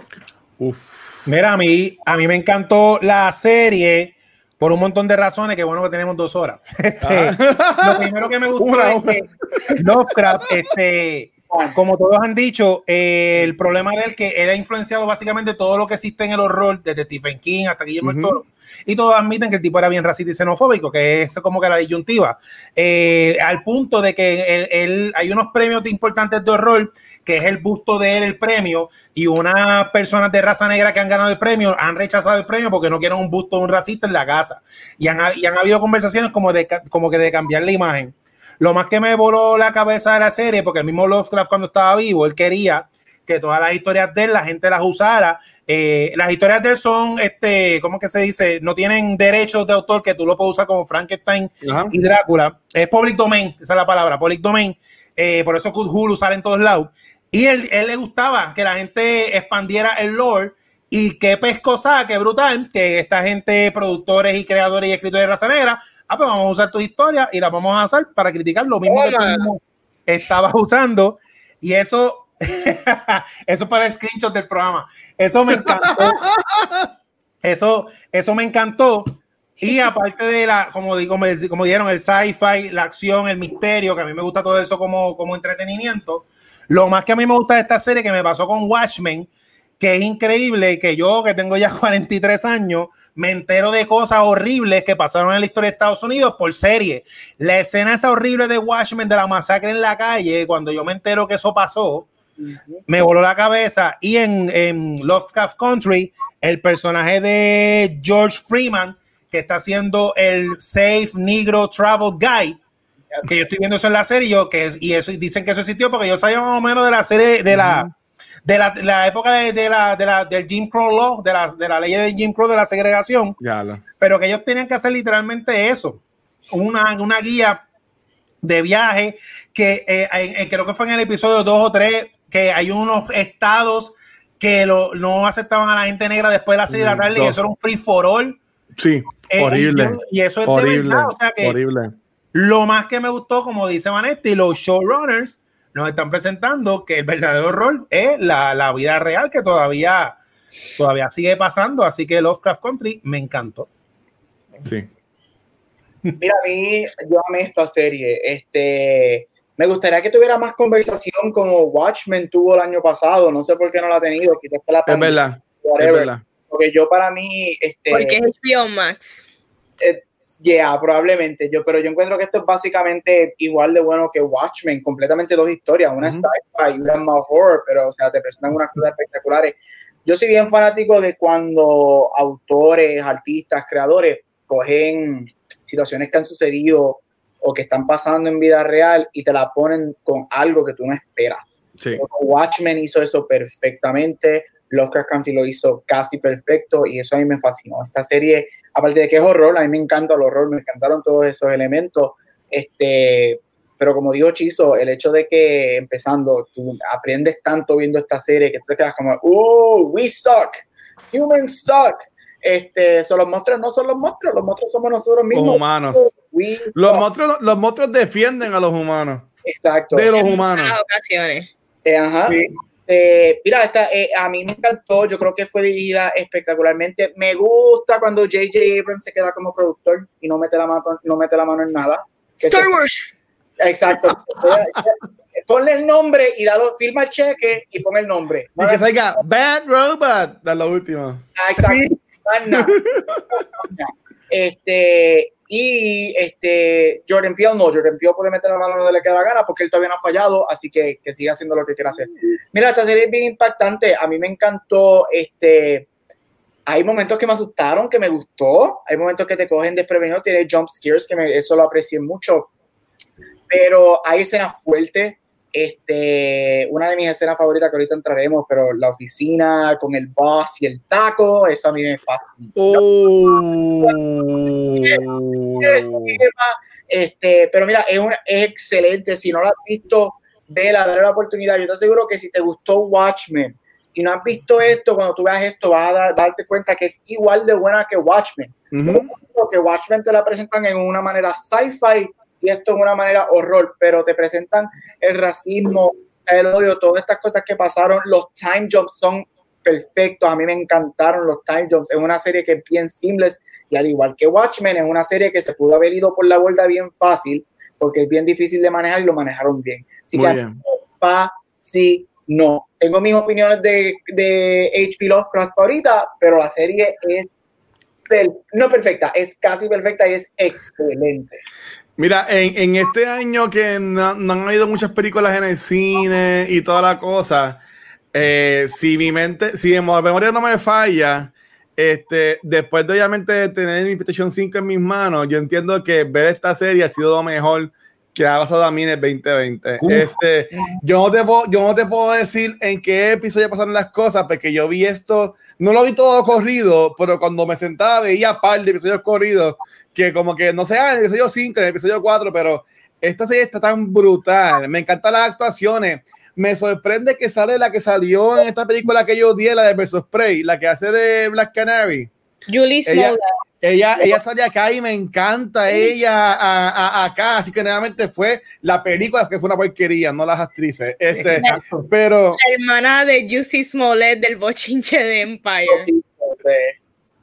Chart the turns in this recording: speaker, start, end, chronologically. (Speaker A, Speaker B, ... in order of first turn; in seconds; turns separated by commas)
Speaker A: 0.6-1.2, Speaker B: 1.2-76.3, Speaker A: 7.0-9.7, Speaker C: 11.5-11.8, Speaker A: 18.0-18.4, Speaker A: 51.6-51.9, Speaker D: 68.9-69.5, Speaker A: 75.5-76.9, Speaker B: 77.4-102.1, Speaker C: 102.4-102.8, Speaker B: 102.9-112.6, Speaker B: 113.3-117.9, Speaker A: 117.5-117.9, Speaker B: 118.5-123.4, Speaker A: 123.4-123.8, Speaker B: 124.0-127.7, Speaker B: 128.4-138.4, Speaker A: 136.7-137.4, Speaker A: 138.8-141.9, Speaker B: 139.3-141.6, Speaker B: 142.3-150.2, Speaker B: 150.8-153.7, Speaker C: 156.2-168.2, Speaker A: 164.9-166.2, Speaker D: 167.9-169.3, Speaker C: 169.8-217.0, Speaker A: 176.0-176.3, Speaker A: 191.8-192.0, Speaker A: 215.3-216.1, Speaker A: 216.8-219.3, Speaker C: 219.4-220.1, Speaker A: 219.9-220.8, Speaker D: 220.2-221.5, Speaker C: 221.8-232.7, Speaker B: 222.3-222.5, Speaker D: 232.4-233.1, Speaker C: 233.6-238.8, Speaker A: 238.6-241.2, Speaker C: 241.4-242.9, Speaker A: 242.6-243.4, Speaker C: 243.6-255.9, Speaker C: 256.7-262.5, Speaker C: 263.5-272.8, Speaker A: 272.6-276.2, Speaker C: 275.6-317.3, Speaker A: 288.7-289.1, Speaker A: 310.1-310.6, Speaker C: 318.1-321.4, Speaker A: 322.0-327.6, Speaker A: 328.1-362.1, Speaker B: 339.8-340.8, Speaker D: 362.5-363.3, Speaker A: 362.9-372.4, Speaker B: 371.1-371.9, Speaker D: 372.4-375.9, Speaker C: 375.7-376.8